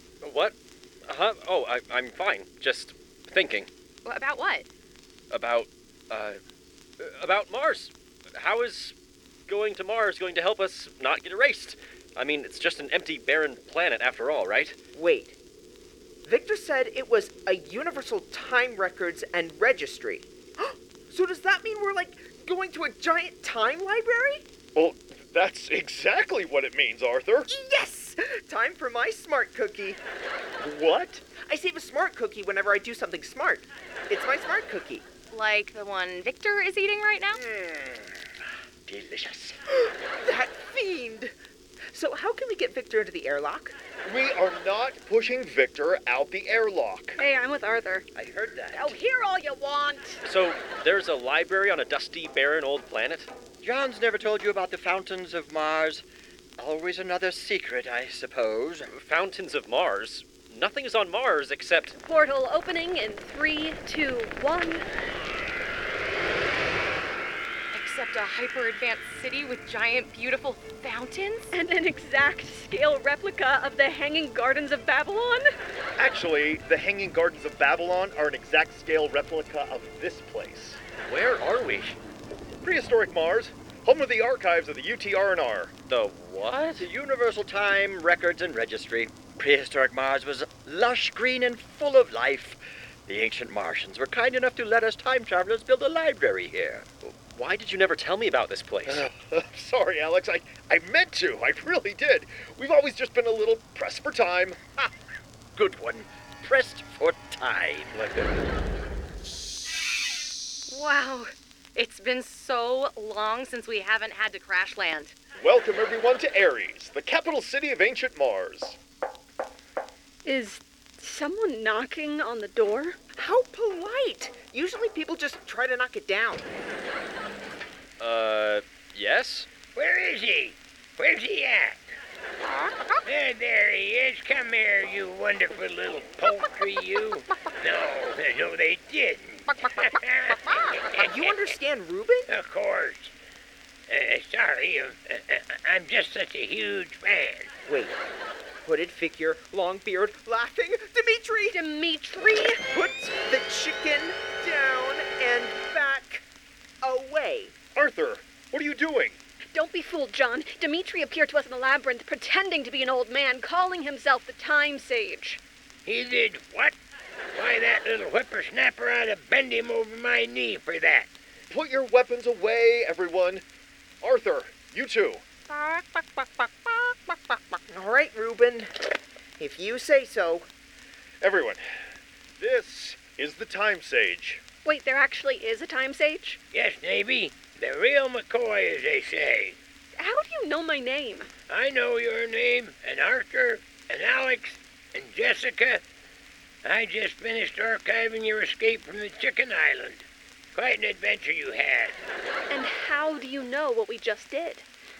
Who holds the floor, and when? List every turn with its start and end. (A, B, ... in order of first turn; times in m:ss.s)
0:00.2-0:00.6 A
0:01.1-0:03.7 A
0:04.0-0:04.7 B
0:05.3-0:06.4 A
0:07.0-0:08.9 A
0:09.5-0:14.8 A
0:14.9-0:15.4 C
0:16.2-0:24.4 C
0:24.8-0:27.5 D
0:27.5-0:30.0 C
0:30.6-0:31.3 D
0:31.4-0:35.1 C
0:35.3-0:37.4 B
0:37.4-0:38.2 E
0:38.9-0:39.6 E
0:39.9-0:41.3 C
0:41.9-0:43.8 C
0:44.0-0:47.2 D
0:47.2-0:48.1 F
0:48.1-0:49.0 E
0:48.7-0:50.2 F
0:50.2-0:53.3 A
0:53.6-0:56.0 E
0:56.6-0:58.9 E
0:58.9-1:02.0 A
1:02.0-1:04.8 F
1:07.7-1:11.6 B
1:11.5-1:15.5 F
1:16.0-1:20.8 D
1:21.1-1:22.0 A
1:22.6-1:25.7 D
1:25.9-1:26.9 A
1:26.8-1:36.9 E
1:37.0-1:39.0 A
1:38.9-1:44.6 D
1:45.5-1:47.9 E
1:50.7-1:55.1 B
1:55.4-1:58.8 D
2:00.2-2:03.0 F
2:03.2-2:06.5 C
2:08.0-2:09.5 A
2:09.8-2:11.9 G
2:13.0-2:21.3 G
2:20.9-2:22.3 C
2:22.3-2:23.1 G
2:23.9-2:27.5 G
2:27.7-2:28.0 C
2:28.6-2:31.6 C
2:31.5-2:32.6 F
2:32.7-2:36.2 C
2:36.8-2:37.6 C
2:37.8-2:39.2 D
2:39.5-2:45.4 F
2:45.8-2:46.8 G
2:47.3-2:51.1 G
2:51.5-2:53.4 D
2:54.0-2:57.4 D
2:57.7-3:00.5 C
3:01.2-3:01.6 D
3:02.4-3:04.4 D
3:04.6-3:06.4 F
3:06.5-3:09.6 G
3:10.0-3:11.3 F
3:11.5-3:15.8 G
3:16.6-3:22.0 G
3:22.5-3:24.6 F